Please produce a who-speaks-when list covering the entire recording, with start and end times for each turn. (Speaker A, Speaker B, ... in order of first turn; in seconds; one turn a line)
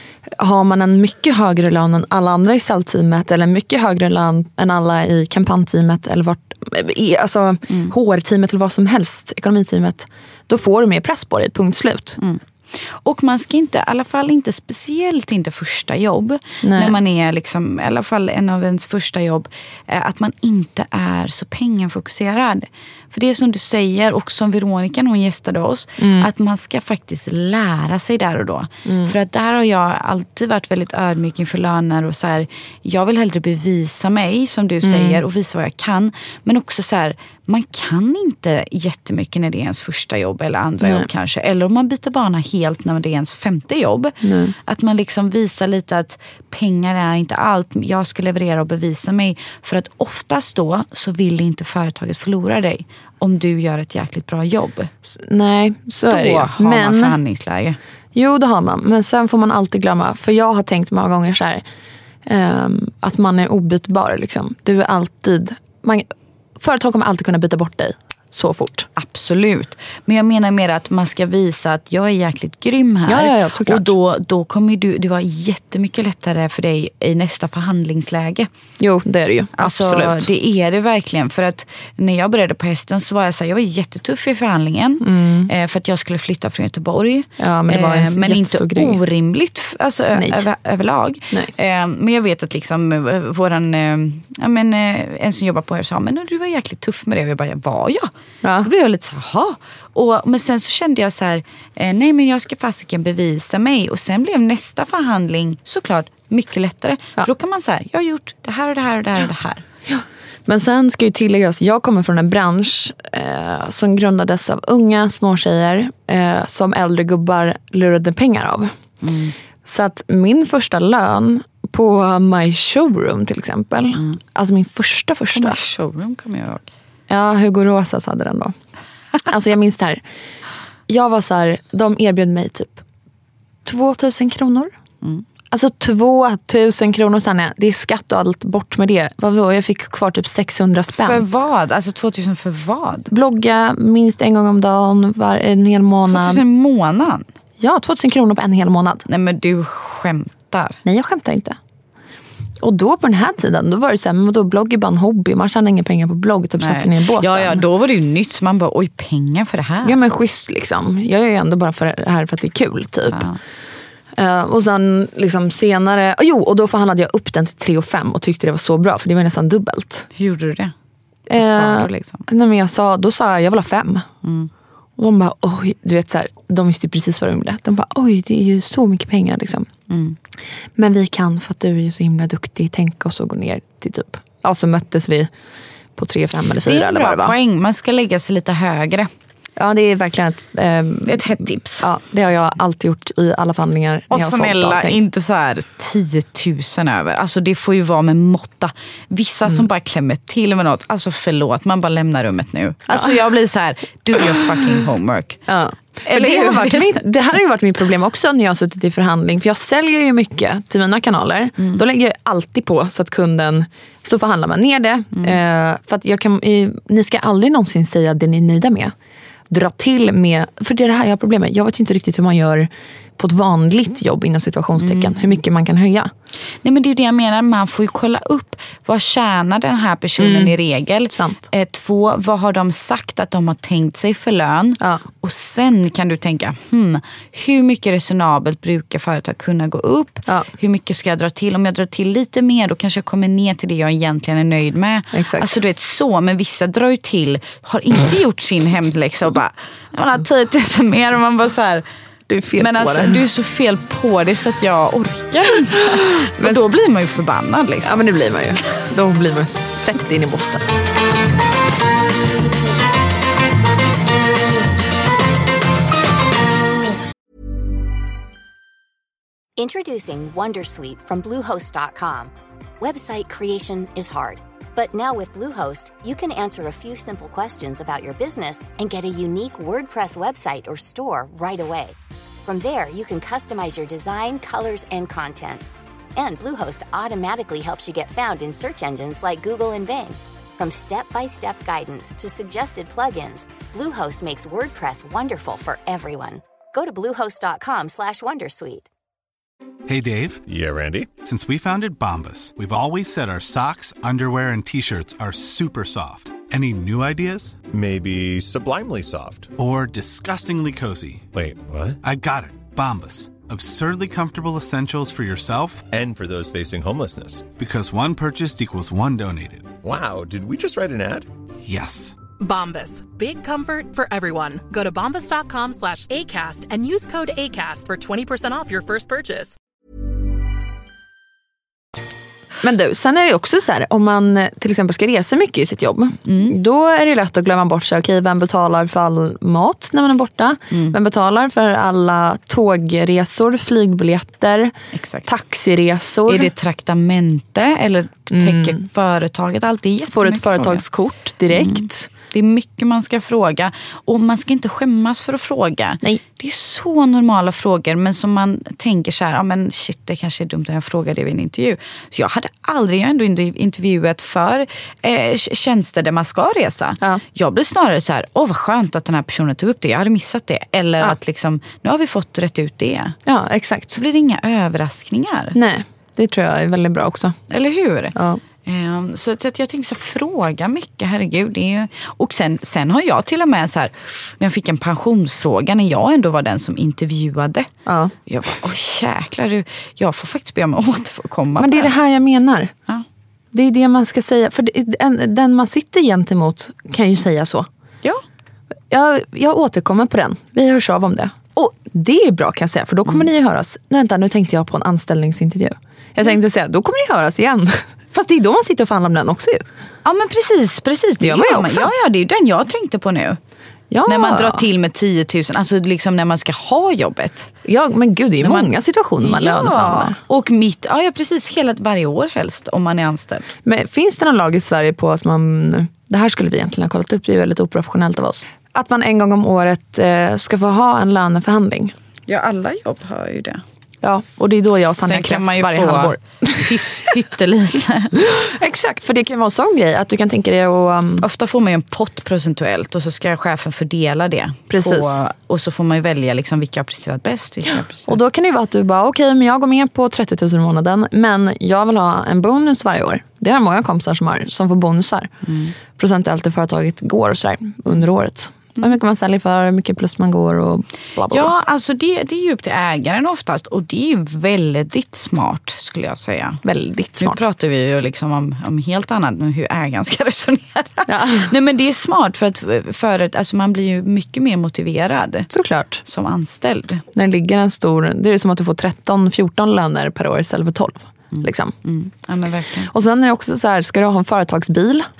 Speaker A: 0.3-12.2
Speaker B: 7.7-7.9
Speaker B: 12.2-54.9
Speaker A: 16.6-17.0
Speaker A: 26.0-26.3
Speaker A: 28.9-29.1
Speaker A: 34.8-35.2
Speaker A: 40.8-41.1
Speaker A: 44.2-44.5
Speaker A: 55.1-57.2
Speaker B: 56.1-57.8
Speaker A: 58.1-61.6
Speaker A: 62.2-66.1
Speaker A: 66.6-68.9
Speaker B: 69.0-78.5
Speaker A: 73.1-73.9
Speaker A: 78.8-80.3
Speaker B: 79.6-98.1
Speaker A: 85.0-85.5
Speaker A: 87.4-89.0
Speaker A: 90.1-90.5
Speaker A: 98.4-98.7
Speaker B: 98.6-109.6
Speaker A: 109.9-118.7
Speaker B: 119.0-119.3
Speaker A: 119.6-125.6
Speaker B: 125.3-126.7
Speaker A: 127.1-128.5
Speaker A: 129.2-130.0
Speaker A: 130.9-132.8
Speaker A: 133.6-134.7
Speaker A: 135.5-141.2
Speaker B: 140.9-143.1
Speaker A: 143.1-146.4
Speaker B: 146.1-147.2
Speaker A: 147.6-149.0
Speaker B: 149.1-150.8
Speaker A: 150.8-151.6
Speaker A: 152.6-157.6
Speaker B: 156.6-160.0
Speaker A: 159.8-163.2
Speaker B: 163.1-163.4
Speaker A: 164.1-170.1
Speaker B: 170.2-170.7
Speaker A: 171.3-174.1
Speaker B: 171.3-172.2
Speaker B: 174.2-174.5
Speaker A: 175.0-179.7
Speaker B: 179.9-180.2
Speaker A: 180.8-185.3
Speaker A: 185.9-187.3
Speaker B: 186.7-189.1
Speaker A: 189.6-195.0
Speaker B: 191.1-191.9
Speaker B: 194.1-205.4
Speaker A: 202.9-203.2
Speaker A: 205.5-218.9
Speaker B: 206.0-207.0
Speaker A: 219.5-226.1
Speaker B: 224.8-225.3
Speaker B: 226.6-251.8
Speaker A: 230.2-230.5
Speaker A: 231.1-231.4
Speaker A: 245.1-245.6
Speaker A: 252.3-253.2
Speaker B: 252.6-257.9
Speaker A: 257.8-260.6
Speaker C: 269.6-285.6
Speaker C: 286.1-298.9
Speaker D: 299.9-300.4
Speaker E: 300.5-301.1
Speaker D: 301.2-307.6
Speaker E: 307.7-309.5
Speaker D: 309.6-311.2
Speaker E: 311.3-312.0
Speaker D: 312.0-315.8
Speaker E: 315.9-317.4
Speaker D: 317.6-319.7
Speaker E: 319.8-321.3
Speaker D: 321.6-322.2
Speaker F: 322.4-329.6
Speaker A: 332.6-344.7
Speaker B: 336.3-336.6
Speaker B: 340.7-340.9
Speaker B: 344.9-345.3
Speaker A: 345.2-346.5
Speaker B: 346.3-350.8
Speaker A: 348.3-348.8
Speaker A: 350.1-352.1
Speaker B: 351.5-373.2
Speaker A: 373.3-374.0
Speaker B: 373.9-375.6
Speaker A: 375.5-377.4
Speaker B: 377.5-387.7
Speaker A: 378.1-378.4
Speaker A: 387.9-388.1
Speaker B: 388.3-391.9
Speaker A: 391.6-392.7
Speaker A: 393.5-397.7
Speaker A: 398.9-409.6
Speaker B: 410.0-413.4
Speaker A: 411.2-411.9
Speaker A: 413.9-414.6
Speaker B: 414.1-417.5
Speaker A: 417.6-420.2
Speaker B: 418.4-423.5
Speaker A: 423.6-431.9
Speaker B: 432.3-433.6
Speaker A: 434.0-437.1
Speaker B: 435.0-438.1
Speaker A: 438.2-441.2
Speaker B: 441.2-448.2
Speaker A: 444.7-445.2
Speaker A: 448.1-455.3
Speaker B: 455.4-455.7
Speaker A: 455.9-461.5
Speaker B: 461.3-466.6
Speaker A: 466.6-467.4
Speaker B: 467.2-475.5
Speaker A: 471.1-471.5
Speaker A: 475.5-476.0
Speaker B: 476.0-477.0
Speaker A: 477.1-481.7
Speaker B: 481.3-482.9
Speaker A: 482.9-485.1